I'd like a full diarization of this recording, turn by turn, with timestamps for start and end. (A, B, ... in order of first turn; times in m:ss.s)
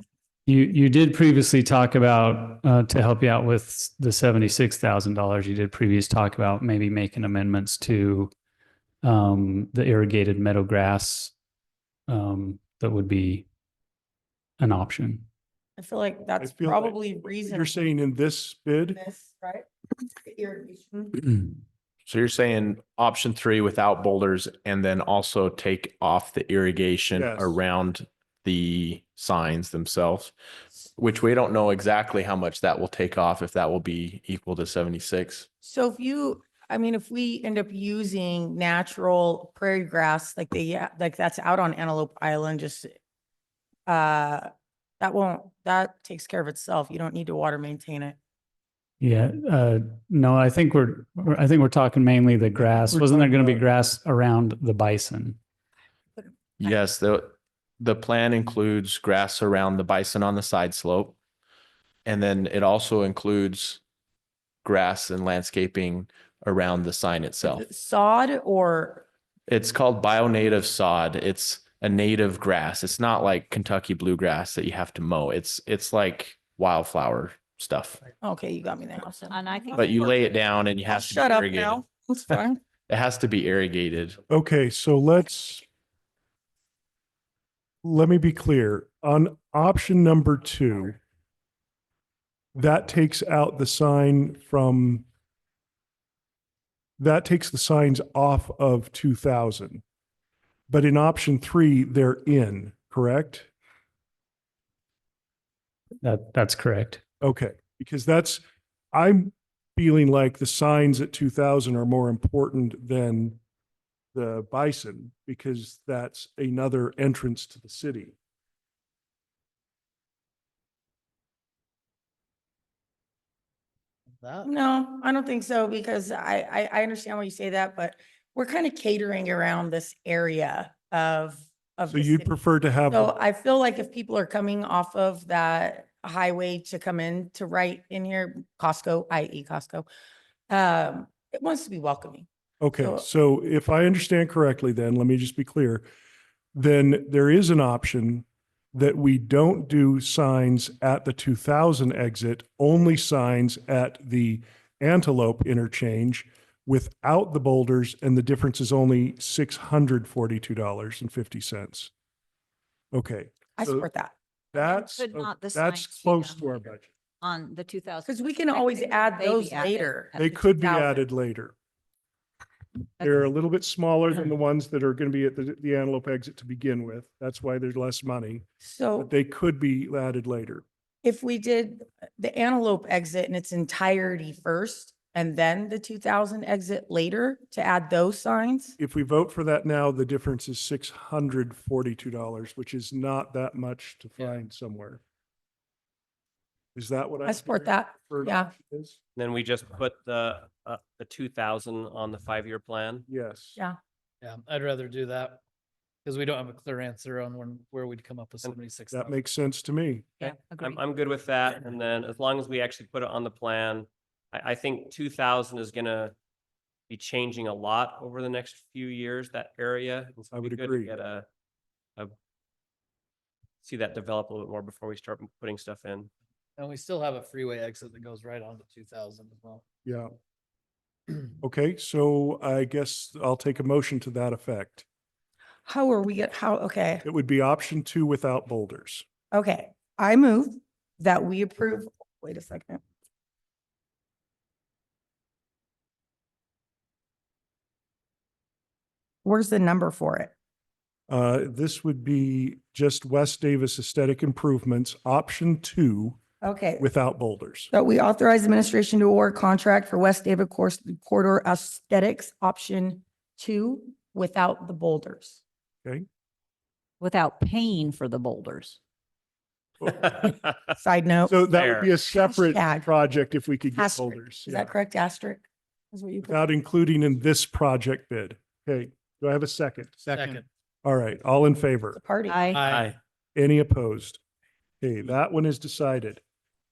0:00.4-0:08.3 A
0:09.0-0:11.3 A
0:12.1-0:13.4 A
0:14.6-0:15.2 A
0:15.8-0:17.8 B
0:16.4-0:19.0 C
0:18.9-0:21.2 B
0:22.0-0:30.3 D
0:27.1-0:27.6 C
0:31.0-0:35.5 D
0:35.6-0:42.9 B
0:43.9-0:48.2 B
0:49.0-0:55.4 A
0:52.6-0:53.6 C
0:56.2-0:56.7 B
0:56.6-1:01.2 D
1:02.0-1:03.8 D
1:04.6-1:07.6 D
1:07.4-1:09.0 B
1:09.5-1:18.0 D
1:18.2-1:19.9 B
1:19.3-1:20.2 E
1:19.8-1:21.8 D
1:20.8-1:22.6 B
1:22.9-1:24.2 D
1:24.3-1:25.6 C
1:27.8-1:31.0 C
1:32.5-1:35.0 C
1:37.0-1:39.8 C
1:40.7-1:43.5 C
1:46.0-1:47.0 A
1:47.2-1:53.4 C
1:54.1-1:58.1 C
2:04.2-2:04.5 F
2:04.4-2:12.4 B
2:11.9-2:13.1 C
2:12.9-2:19.8 B
2:20.5-2:22.2 B
2:22.6-2:25.8 C
2:22.8-2:23.1 B
2:26.5-2:41.9 C
2:42.9-2:43.9 C
2:43.6-2:44.1 B
2:44.5-2:46.9 C
2:44.5-2:50.2 E
2:48.0-2:51.0 B
2:50.1-2:51.5 C
2:53.0-2:58.4 C
2:58.6-2:59.1 B
2:59.0-3:00.6 C
3:01.0-3:08.8 B
3:08.8-3:15.0 C
3:16.7-3:19.0 C
3:17.2-3:18.5 B
3:19.2-3:23.0 G
3:23.1-3:23.6 C
3:24.2-3:25.4 F
3:26.0-3:29.3 F
3:28.9-3:30.1 C
3:30.2-3:30.8 E
3:30.2-3:36.1 G
3:36.9-3:41.2 G
3:40.3-3:40.9 C
3:43.6-3:46.1 G
3:46.6-3:49.6 F
3:49.8-3:50.1 C
3:51.4-3:54.8 C
3:55.6-3:57.0 B
3:57.0-3:59.0 C
3:59.3-4:02.8 B
4:09.2-4:10.3 B
4:11.1-4:16.2 C
4:16.4-4:16.9 B
4:16.8-4:17.7 C
4:17.7-4:25.4 B
4:27.0-4:28.8 E
4:29.8-4:30.2 C
4:30.1-4:30.5 G
4:30.8-4:31.4 B
4:31.3-4:34.7 C
4:31.5-4:31.9 G
4:32.2-4:32.8 B
4:33.7-4:36.4 B
4:36.2-4:40.0 C
4:40.1-4:40.4 F
4:40.8-4:42.0 C
4:41.9-4:42.6 B
4:42.3-4:42.7 E
4:42.5-4:42.9 F
4:42.6-4:43.0 G
4:43.3-4:44.2 C
4:44.8-4:46.2 C